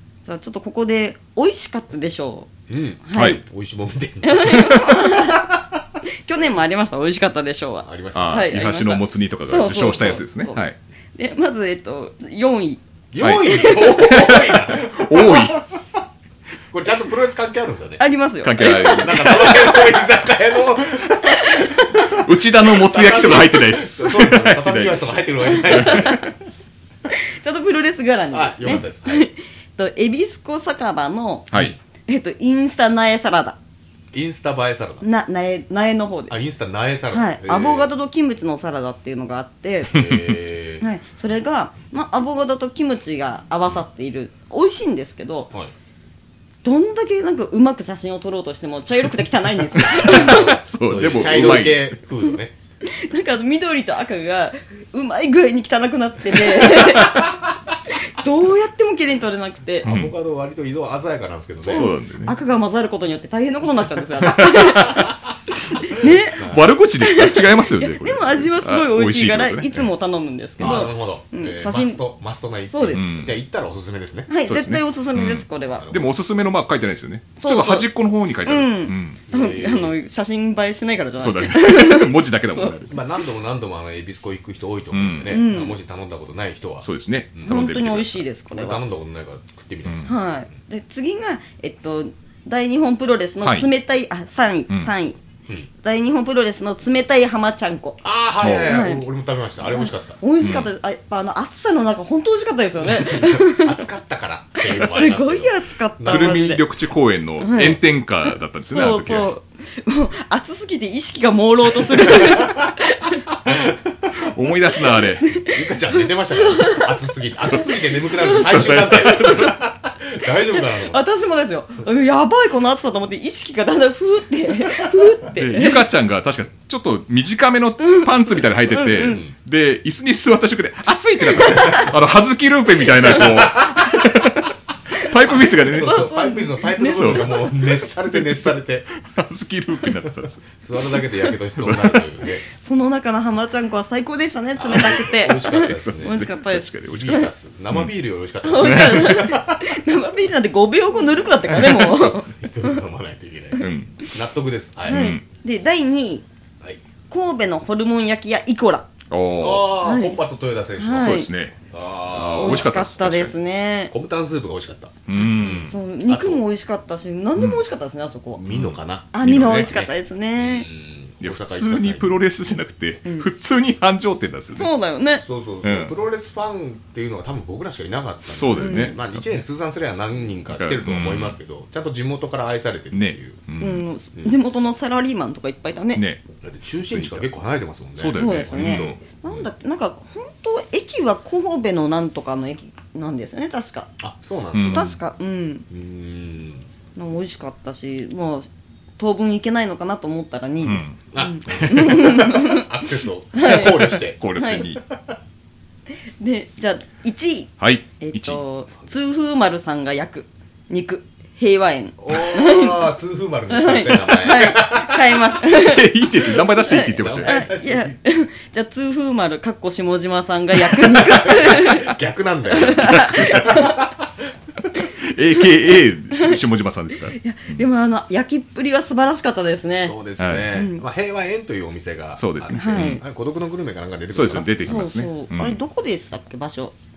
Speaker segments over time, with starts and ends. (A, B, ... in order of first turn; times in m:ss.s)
0:00.2-0:02.5 A
0:02.7-0:05.6 B
0:03.1-0:03.4 A
0:04.2-0:05.5 A
0:06.2-0:12.8 A
0:07.8-0:08.5 B
0:08.1-0:10.8 C
0:13.1-0:15.8 B
0:13.2-0:15.6 C
0:13.4-0:13.9 A
0:16.7-0:18.0 B
0:18.0-0:19.7 A
0:18.4-0:19.7 C
0:18.7-0:26.3 B
0:21.2-0:21.8 A
0:22.0-0:25.1 C
0:25.5-0:26.3 A
0:25.7-0:26.1 C
0:27.1-0:31.5 A
0:28.3-0:29.3 B
0:31.5-0:31.8 B
0:32.1-0:33.6 A
0:34.1-0:35.1 B
0:35.0-0:36.4 A
0:36.3-0:37.9 B
0:37.1-0:40.3 A
0:39.9-0:40.8 B
0:40.8-0:45.5 A
0:46.6-0:50.5 A
0:49.9-0:52.0 C
0:49.9-0:52.6 B
0:52.8-0:57.3 A
0:58.2-0:59.9 A
0:59.8-1:01.9 B
0:59.8-1:00.1 C
1:01.7-1:05.1 A
1:01.7-1:02.4 C
1:04.2-1:05.1 C
1:05.6-1:06.4 A
1:06.0-1:09.9 C
1:06.4-1:06.7 B
1:07.0-1:12.0 A
1:10.6-1:14.3 B
1:12.7-1:13.1 A
1:12.9-1:13.4 C
1:14.3-1:15.9 A
1:14.5-1:19.2 C
1:15.8-1:16.0 B
1:17.4-1:17.9 A
1:18.4-1:22.8 A
1:19.3-1:19.9 B
1:21.2-1:23.0 C
1:22.9-1:27.6 B
1:24.9-1:25.4 C
1:25.3-1:25.8 A
1:26.8-1:28.3 C
1:27.5-1:28.8 A
1:28.5-1:30.2 B
1:30.1-1:35.2 A
1:33.4-1:33.7 C
1:35.8-1:38.0 A
1:38.0-1:40.2 B
1:38.4-1:38.8 C
1:38.7-1:39.0 A
1:39.7-1:43.8 A
1:40.4-1:40.7 C
1:42.8-1:46.4 B
1:44.7-1:46.6 A
1:46.0-1:49.3 C
1:47.4-1:53.2 A
1:52.0-1:52.7 B
1:53.4-1:54.0 B
1:54.2-1:55.4 C
1:55.2-1:59.6 A
1:55.5-2:01.0 B
1:57.5-1:59.6 C
2:00.2-2:05.8 A
2:05.4-2:16.1 C
2:07.8-2:09.3 A
2:09.0-2:09.3 B
2:11.4-2:11.9 B
2:13.0-2:13.8 B
2:15.4-2:18.9 B
2:15.6-2:17.6 A
2:16.8-2:22.1 C
2:20.5-2:22.4 B
2:22.6-2:27.3 A
2:24.6-2:26.2 B
2:25.6-2:27.9 C
2:26.8-2:29.8 B
2:28.4-2:32.3 A
2:28.6-2:29.2 C
2:31.5-2:32.0 C
2:32.3-2:35.1 B
2:33.6-2:34.1 A
2:33.6-2:34.0 C
2:34.9-2:36.3 A
2:34.9-2:35.2 C
2:37.1-2:38.9 A
2:39.1-2:39.7 C
2:39.4-2:42.7 B
2:39.8-2:40.2 A
2:40.8-2:41.3 A
2:41.0-2:41.6 C
2:42.1-2:43.3 C
2:42.4-2:43.9 A
2:43.9-2:46.4 B
2:45.1-2:45.8 C
2:45.2-2:48.4 A
2:48.4-2:52.2 B
2:48.5-2:49.7 C
2:49.1-2:50.7 A
2:51.2-2:54.7 C
2:54.6-2:55.2 A
2:55.2-3:03.4 B
2:55.6-2:55.9 C
2:58.4-2:59.4 C
2:58.6-2:59.0 A
3:00.5-3:01.4 C
3:02.9-3:03.9 C
3:03.6-3:06.0 A
3:06.0-3:06.2 C
3:06.4-3:09.0 B
3:06.9-3:07.3 C
3:08.0-3:09.0 C
3:08.1-3:13.9 A
3:14.0-3:15.0 B
3:14.5-3:15.0 C
3:14.7-3:15.7 A
3:15.7-3:16.7 B
3:17.0-3:22.7 A
3:20.6-3:22.0 C
3:21.1-3:24.2 B
3:23.4-3:24.7 A
3:24.2-3:24.8 C
3:24.9-3:25.2 B
3:26.2-3:32.9 A
3:27.6-3:28.4 C
3:32.0-3:35.2 B
3:33.5-3:42.0 A
3:35.5-3:37.4 C
3:37.0-3:38.0 B
3:40.9-3:44.1 B
3:42.5-3:43.9 A
3:42.8-3:43.5 C
3:44.8-3:47.6 C
3:46.1-3:46.4 A
3:47.1-3:50.0 A
3:49.8-3:54.8 B
3:50.2-3:50.5 C
3:50.5-3:50.8 A
3:52.2-3:53.0 C
3:52.6-3:53.0 A
3:54.1-3:55.6 C
3:54.6-3:56.8 A